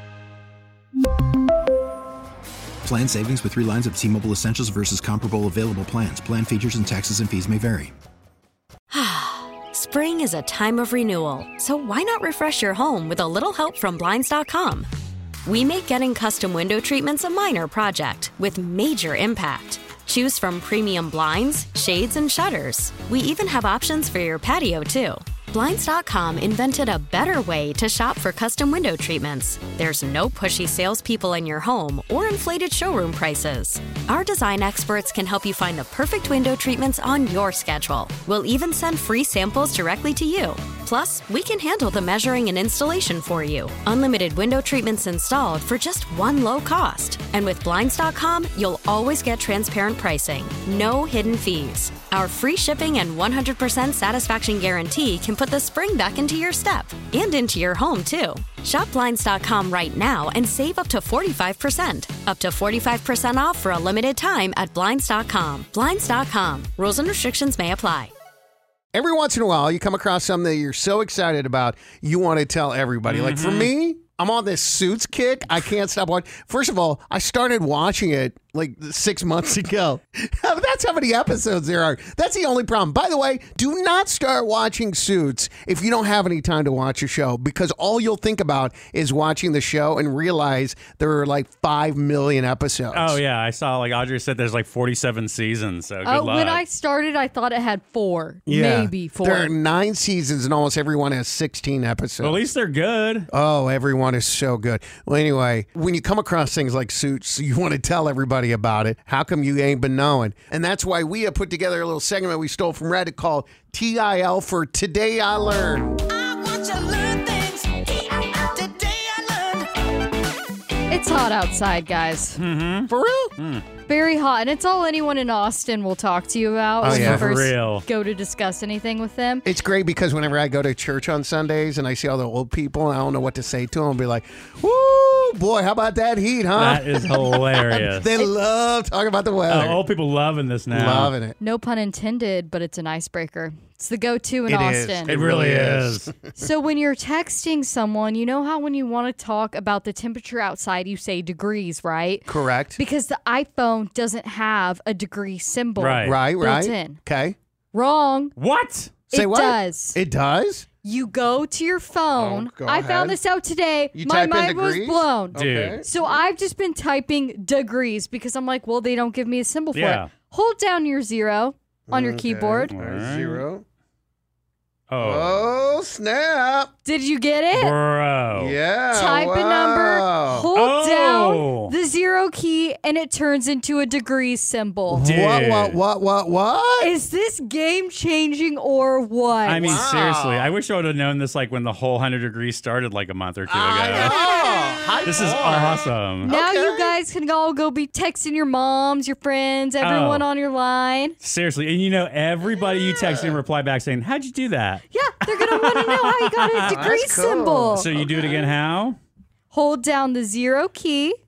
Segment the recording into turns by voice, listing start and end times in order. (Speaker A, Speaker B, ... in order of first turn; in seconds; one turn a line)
Speaker A: 2.8-7.9
Speaker B: 8.9-14.9
Speaker B: 15.5-68.1
Speaker C: 68.9-93.2
Speaker D: 73.1-73.7
Speaker D: 92.9-96.6
Speaker E: 96.0-99.5
Speaker C: 98.5-102.4
Speaker D: 102.2-103.3
Speaker C: 103.3-116.0
Speaker B: 116.3-119.5
Speaker E: 120.9-122.4
Speaker D: 122.4-123.7
Speaker C: 122.9-123.3
Speaker E: 123.8-129.4
Speaker C: 126.8-127.3
Speaker D: 126.8-127.8
Speaker C: 129.4-139.8
Speaker D: 136.6-138.1
Speaker D: 139.5-141.2
Speaker C: 140.7-141.4
Speaker E: 141.4-145.2
Speaker C: 144.5-146.4
Speaker D: 145.1-146.1
Speaker E: 146.3-152.2
Speaker C: 152.3-152.8
Speaker E: 152.8-157.0
Speaker D: 155.8-156.2
Speaker C: 156.0-157.4
Speaker E: 157.7-158.3
Speaker D: 158.4-158.9
Speaker E: 159.1-160.0
Speaker C: 159.1-160.7
Speaker E: 160.8-172.7
Speaker C: 162.2-163.2
Speaker C: 163.9-166.2
Speaker D: 165.3-165.8
Speaker D: 169.7-170.1
Speaker C: 171.9-173.6
Speaker D: 172.7-173.4
Speaker D: 174.9-175.5
Speaker C: 175.0-176.7
Speaker E: 176.8-177.8
Speaker D: 177.5-178.6
Speaker C: 178.3-180.5
Speaker E: 178.9-185.0
Speaker D: 180.6-181.7
Speaker C: 184.9-186.9
Speaker D: 185.0-185.8
Speaker E: 186.8-189.7
Speaker D: 189.5-194.4
Speaker C: 189.6-190.5
Speaker C: 193.5-196.9
Speaker D: 195.0-196.3
Speaker E: 196.2-201.2
Speaker D: 199.8-200.3
Speaker D: 201.2-207.0
Speaker C: 202.6-203.4
Speaker E: 204.9-207.9
Speaker C: 206.6-208.6
Speaker D: 207.8-209.0
Speaker E: 209.5-211.2